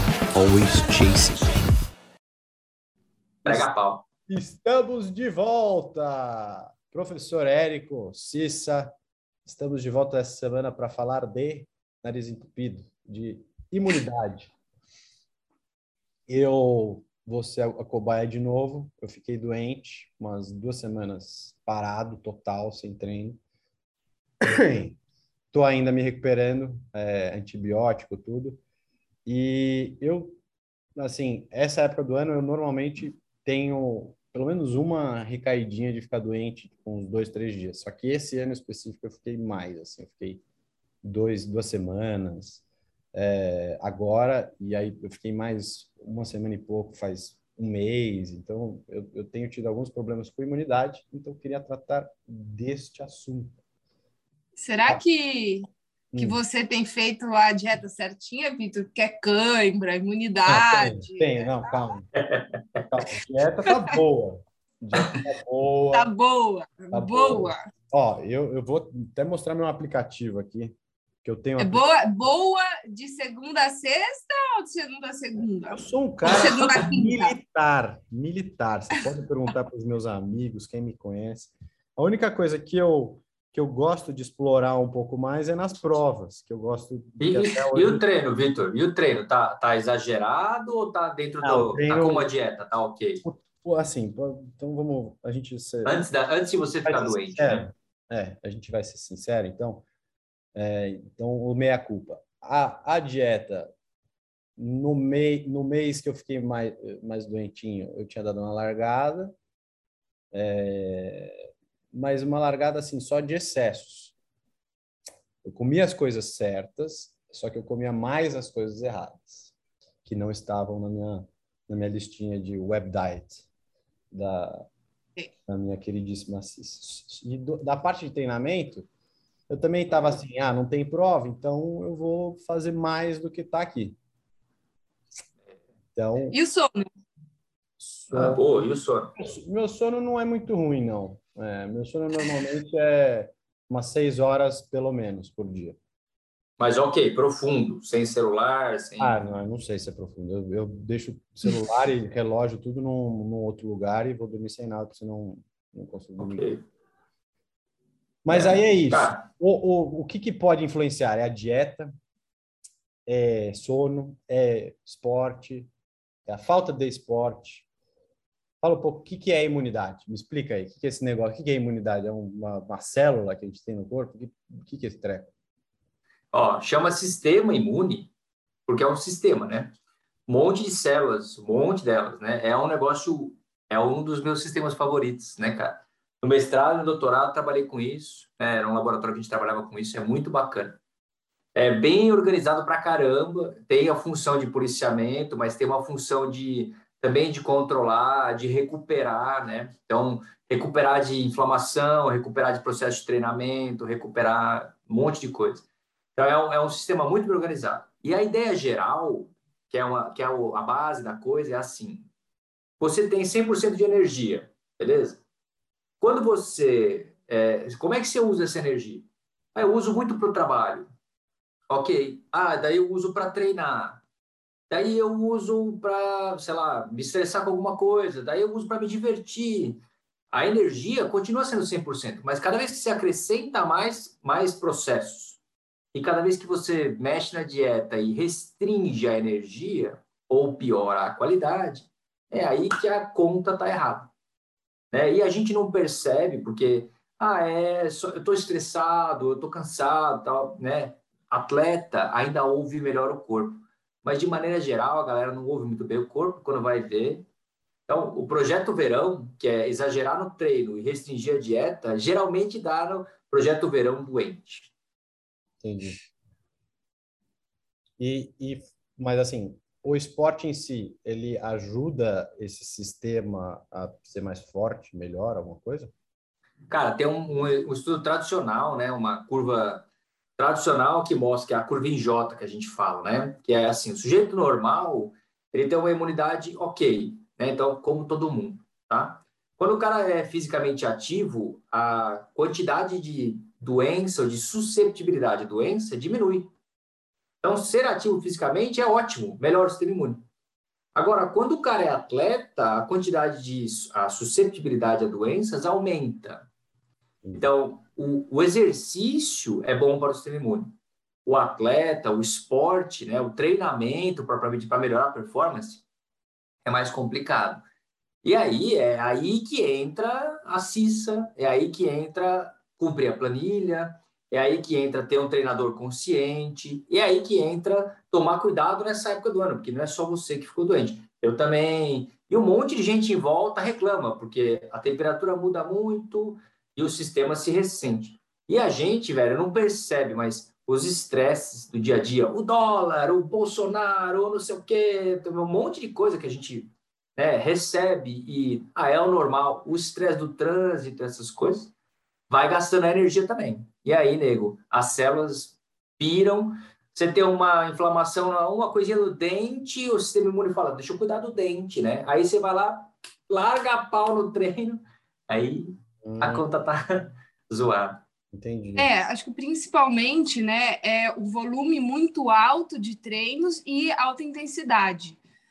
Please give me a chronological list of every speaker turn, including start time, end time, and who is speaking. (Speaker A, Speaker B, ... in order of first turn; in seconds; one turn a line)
Speaker A: 0.3-1.6
Speaker B: 3.4-4.0
Speaker A: 3.5-3.7
Speaker A: 4.3-14.5
Speaker A: 16.3-23.4
Speaker A: 24.4-25.0
Speaker A: 25.5-28.6
Speaker A: 29.3-30.4
Speaker A: 31.0-40.4
Speaker A: 41.0-42.6
Speaker A: 43.1-53.6
Speaker C: 54.6-61.7
Speaker A: 56.1-56.4
Speaker A: 60.5-62.1
Speaker B: 62.2-62.9
Speaker A: 62.9-66.1
Speaker C: 65.9-67.6
Speaker A: 66.9-71.8
Speaker C: 71.6-77.3
Speaker A: 75.7-88.0
Speaker B: 87.2-93.2
Speaker A: 91.4-92.3
Speaker A: 93.2-96.0
Speaker B: 95.8-97.7
Speaker A: 96.8-99.8
Speaker A: 100.5-103.7
Speaker A: 104.6-109.3
Speaker A: 110.3-114.1
Speaker A: 115.4-119.5
Speaker A: 120.0-123.5
Speaker A: 124.1-124.7
Speaker A: 125.5-128.9
Speaker A: 129.5-134.0
Speaker A: 136.0-136.4
Speaker C: 136.3-136.9
Speaker A: 137.8-138.4
Speaker B: 138.1-139.1
Speaker A: 139.2-145.8
Speaker B: 146.6-149.2
Speaker A: 149.0-156.5
Speaker B: 156.2-156.6
Speaker A: 158.2-161.9
Speaker B: 158.3-159.3
Speaker A: 163.1-165.7
Speaker A: 166.3-167.7
Speaker A: 168.6-175.3
Speaker B: 176.3-178.1
Speaker B: 178.7-179.7
Speaker B: 180.3-190.8
Speaker B: 191.6-205.7
Speaker B: 206.2-212.1
Speaker B: 212.8-215.2
Speaker B: 216.0-220.9
Speaker B: 221.7-224.0
Speaker B: 224.7-229.8
Speaker B: 230.3-235.4
Speaker B: 235.9-244.1
Speaker B: 244.9-257.2
Speaker B: 257.9-264.7
Speaker A: 265.6-266.0
Speaker A: 268.0-275.9
Speaker B: 276.7-279.9
Speaker B: 280.4-296.5
Speaker B: 297.4-300.2
Speaker B: 300.9-306.5
Speaker B: 307.4-315.8
Speaker B: 316.6-317.6
Speaker B: 318.2-351.7
Speaker B: 352.3-368.0
Speaker A: 366.0-366.4
Speaker A: 368.3-368.9
Speaker C: 368.8-375.2